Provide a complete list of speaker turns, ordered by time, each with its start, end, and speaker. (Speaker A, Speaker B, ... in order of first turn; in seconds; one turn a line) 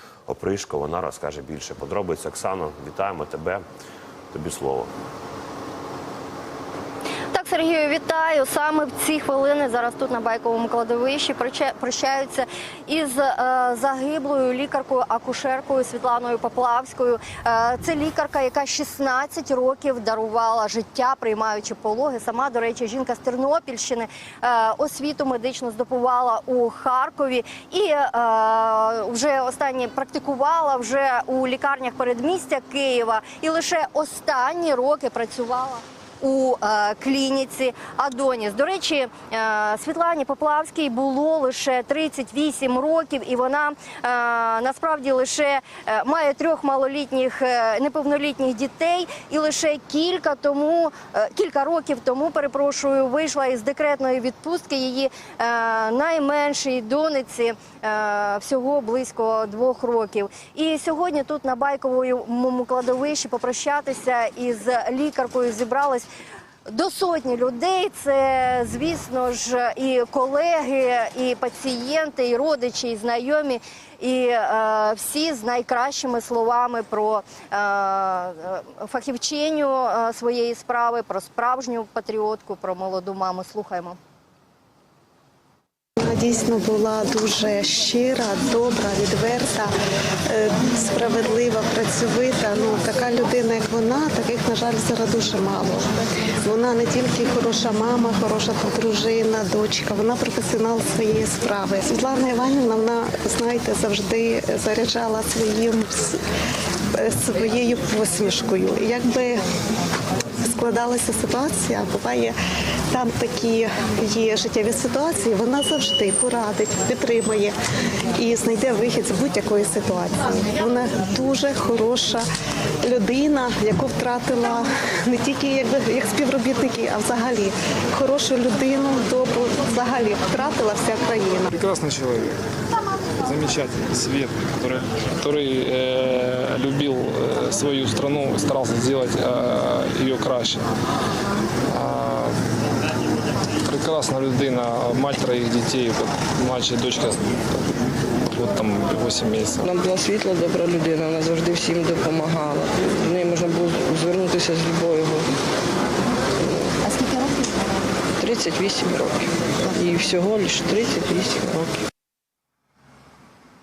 Speaker A: 0.3-3.6
Speaker A: 4.3-4.9
Speaker B: 7.3-66.1
Speaker B: 66.7-84.0
Speaker C: 86.0-89.7
Speaker C: 90.3-95.8
Speaker C: 96.4-106.2
Speaker C: 106.9-109.4
Speaker C: 110.4-112.3
Speaker C: 112.9-117.5
Speaker C: 118.2-122.2
Speaker C: 122.8-131.5
Speaker D: 131.5-132.4
Speaker D: 133.2-140.6
Speaker D: 141.7-142.3
Speaker D: 143.6-147.3
Speaker D: 148.3-149.7
Speaker E: 149.6-155.3
Speaker E: 156.4-156.7
Speaker B: 157.0-157.5
Speaker E: 158.2-161.9